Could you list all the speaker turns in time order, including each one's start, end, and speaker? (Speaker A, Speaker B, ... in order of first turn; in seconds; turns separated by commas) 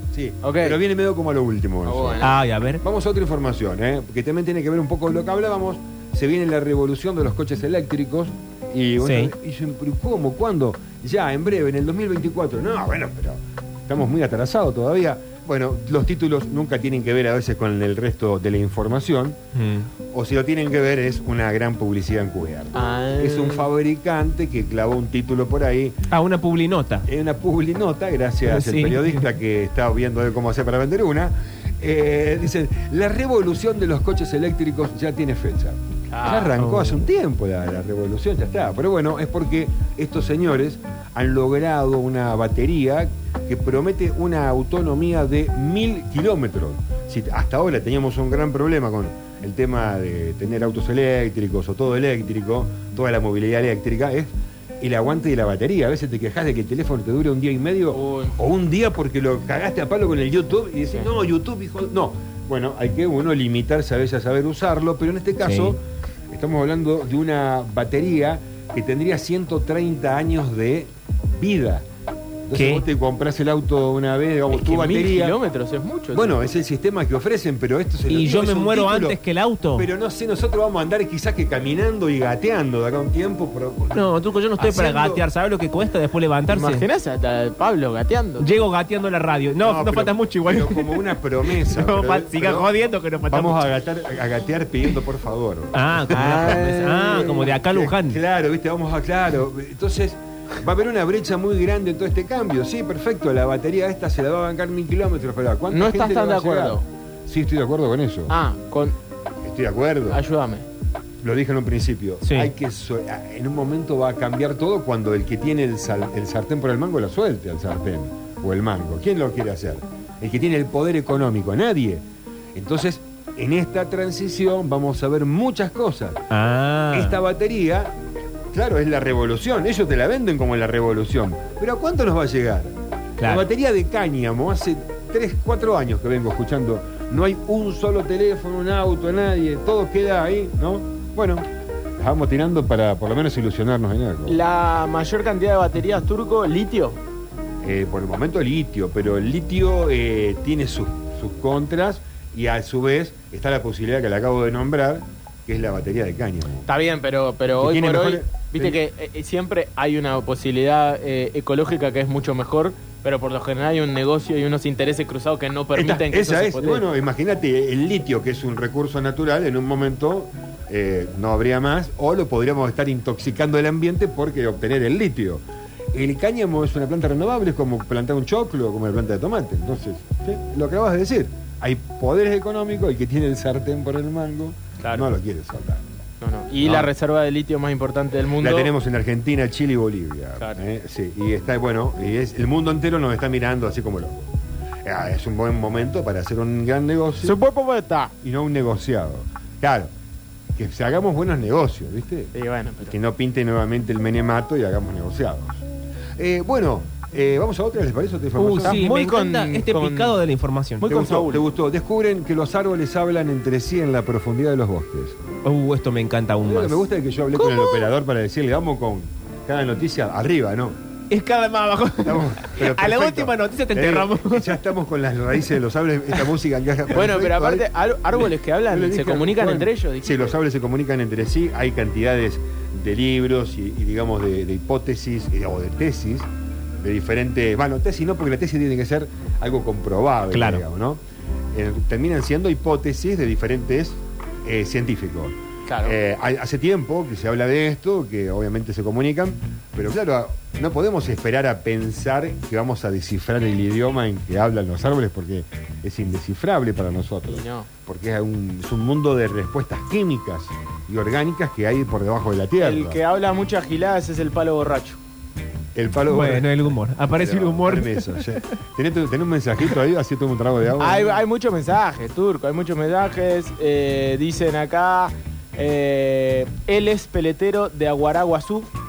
Speaker A: 0.1-2.2, Speaker B: 0.4-0.8, Speaker B: 1.8-2.4, Speaker C: 2.2-2.8, Speaker A: 2.8-19.4, Speaker C: 9.0-9.3, Speaker C: 19.5-19.9, Speaker A: 20.1-26.0, Speaker B: 22.7-23.7, Speaker C: 26.1-27.1, Speaker A: 27.1-71.8, Speaker C: 28.4-29.3, Speaker B: 36.1-36.5, Speaker C: 36.6-37.0, Speaker B: 57.9-58.4, Speaker C: 65.4-65.8, Speaker A: 72.5-75.3, Speaker C: 72.5-72.9, Speaker B: 74.5-76.4, Speaker A: 76.1-79.2, Speaker C: 78.1-79.9, Speaker A: 79.7-85.2, Speaker C: 83.9-86.8, Speaker B: 86.5-88.5, Speaker C: 88.4-93.6, Speaker A: 89.6-92.7, Speaker A: 93.3-108.3, Speaker C: 95.7-98.2, Speaker B: 96.1-96.9, Speaker B: 105.7-106.8, Speaker B: 108.3-108.9, Speaker A: 109.4-110.2, Speaker B: 110.1-110.7, Speaker A: 111.2-122.0, Speaker C: 112.2-112.5, Speaker A: 122.5-126.2, Speaker C: 126.3-127.1, Speaker A: 126.9-127.9, Speaker A: 128.5-141.5, Speaker C: 133.2-133.4, Speaker A: 142.0-144.4, Speaker B: 144.2-147.0, Speaker A: 147.6-156.7, Speaker B: 156.6-166.8, Speaker A: 157.6-158.8, Speaker A: 165.7-185.8, Speaker B: 184.8-185.1, Speaker B: 186.2-188.7, Speaker A: 186.6-186.9, Speaker A: 188.4-194.3, Speaker A: 194.8-197.4, Speaker B: 197.2-198.1, Speaker A: 198.2-199.9, Speaker A: 200.6-205.6, Speaker B: 202.3-202.9, Speaker A: 206.2-208.8, Speaker C: 208.4-210.8, Speaker B: 208.6-210.2, Speaker B: 210.8-211.4, Speaker A: 210.8-215.2, Speaker C: 215.4-216.8, Speaker A: 216.4-220.8, Speaker C: 221.1-224.6, Speaker A: 222.0-236.3, Speaker B: 226.9-230.4, Speaker A: 236.8-241.0, Speaker C: 240.3-240.6, Speaker A: 241.5-263.0, Speaker B: 245.7-246.0, Speaker B: 257.3-257.7, Speaker B: 262.6-265.0, Speaker A: 265.7-271.2, Speaker C: 266.1-268.4, Speaker B: 270.8-278.7